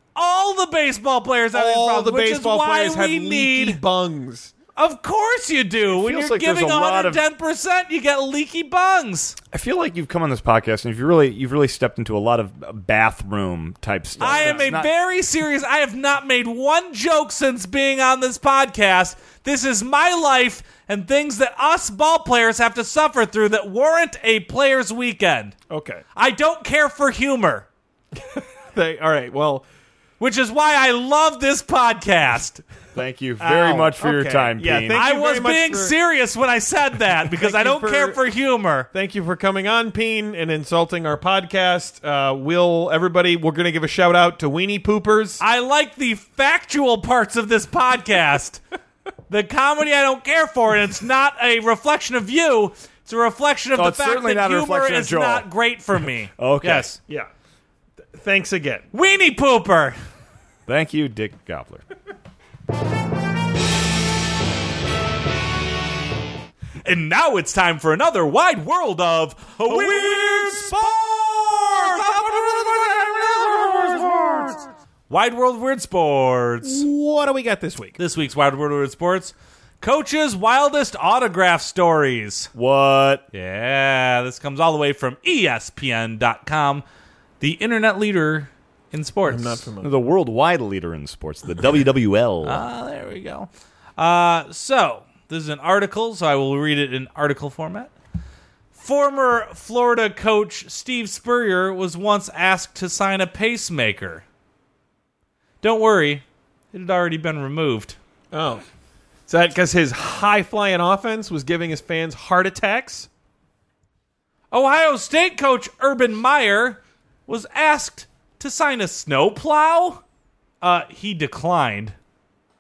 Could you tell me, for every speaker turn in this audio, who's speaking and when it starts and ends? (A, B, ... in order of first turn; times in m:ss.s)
0:00.1-0:03.8 A
0:01.5-0:04.5 B
0:04.8-0:09.4 A
0:05.9-0:07.2 C
0:09.5-0:14.9 C
0:14.2-0:14.7 B
0:14.2-0:25.6 A
0:25.7-0:26.0 B
0:26.1-0:27.6 A
0:28.2-0:29.6 B
0:30.2-0:32.6 A
0:32.9-0:35.0 C
0:33.4-0:35.9 B
0:34.9-0:38.9 A
0:37.3-0:38.2 B
0:38.9-0:45.4 B
0:45.4-0:48.6 A
0:49.3-0:57.0 A
0:53.7-0:55.4 C
0:56.4-0:56.9 C
0:58.1-0:58.8 B
0:58.9-1:00.0 A
1:00.7-1:01.8 C
1:06.8-1:16.8 A
1:09.7-1:11.0 B
1:16.6-1:18.0 B
1:18.0-1:22.5 A
1:22.5-1:23.2 C
1:23.3-1:26.8 A
1:27.4-1:29.6 A
1:29.3-1:29.9 B
1:29.8-1:32.6 C
1:32.4-1:37.9 A
1:38.7-1:44.2 A
1:45.6-1:48.0 A
1:48.3-1:48.6 B
1:49.3-1:53.1 B
1:54.5-2:00.0 A
2:00.6-2:01.9 A